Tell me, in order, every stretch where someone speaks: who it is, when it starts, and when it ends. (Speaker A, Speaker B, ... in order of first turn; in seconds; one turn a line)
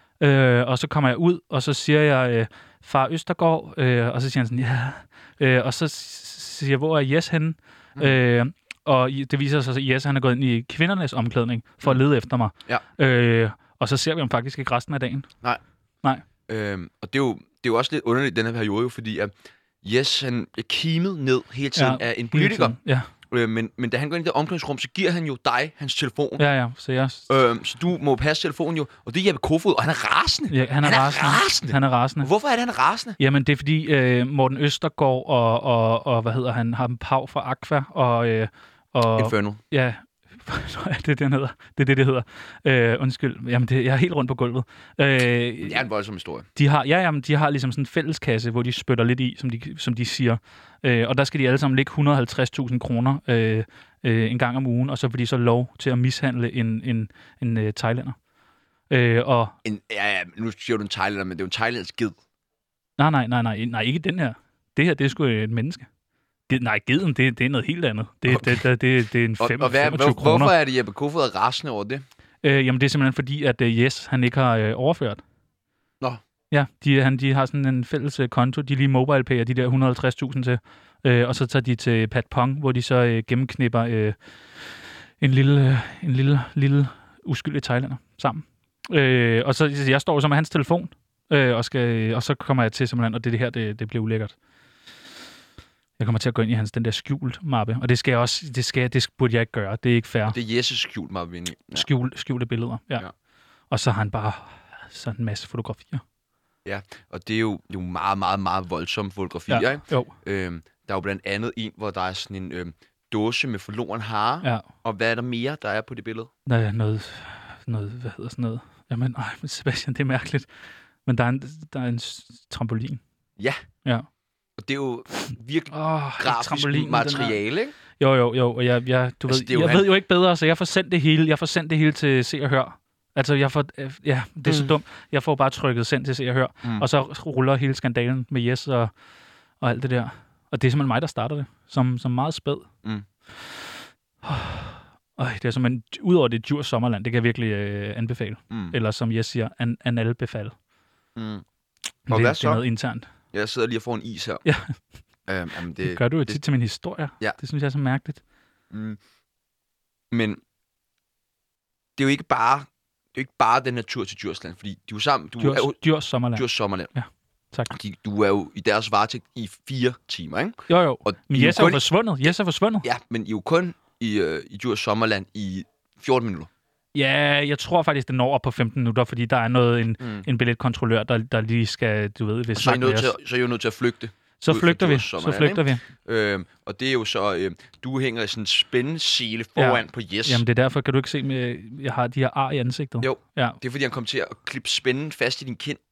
Speaker A: 0.2-15.3
Speaker B: 16.5-19.3
Speaker B: 19.8-22.8
Speaker A: 21.8-23.1
Speaker B: 23.3-26.4
Speaker A: 26.4-27.3
Speaker B: 27.3-33.2
Speaker A: 30.5-32.3
Speaker A: 33.2-45.8
Speaker B: 39.1-39.6
Speaker B: 45.6-46.5
Speaker A: 46.5-58.1
Speaker A: 58.9-59.5
Speaker B: 59.6-62.2
Speaker A: 63.0-65.9
Speaker A: 66.5-70.5
Speaker B: 68.3-68.7
Speaker B: 69.4-72.0
Speaker A: 72.4-75.2
Speaker A: 76.5-84.2
Speaker A: 85.2-94.3
Speaker A: 96.0-100.4
Speaker B: 100.3-101.9
Speaker A: 101.7-103.1
Speaker A: 103.7-106.0
Speaker B: 106.6-116.3
Speaker A: 109.5-110.1
Speaker A: 116.5-120.5
Speaker A: 121.0-123.0
Speaker B: 124.6-127.8
Speaker A: 125.7-127.4
Speaker A: 128.0-138.9
Speaker B: 129.3-129.9
Speaker B: 134.4-134.7
Speaker A: 139.6-142.7
Speaker A: 144.2-150.6
Speaker B: 148.5-148.8
Speaker B: 151.2-151.4
Speaker B: 152.1-152.7
Speaker A: 152.1-153.1
Speaker B: 153.3-154.4
Speaker A: 154.4-154.8
Speaker B: 155.3-156.4
Speaker A: 155.8-158.2
Speaker B: 158.7-159.0
Speaker B: 160.1-160.4
Speaker B: 162.0-165.8
Speaker A: 165.4-167.7
Speaker B: 166.3-166.9
Speaker B: 167.7-172.3
Speaker A: 170.7-172.8
Speaker B: 172.8-176.5
Speaker A: 176.9-183.1
Speaker B: 180.0-180.3
Speaker B: 182.6-190.4
Speaker A: 184.4-185.8
Speaker A: 189.6-193.6
Speaker B: 193.0-195.8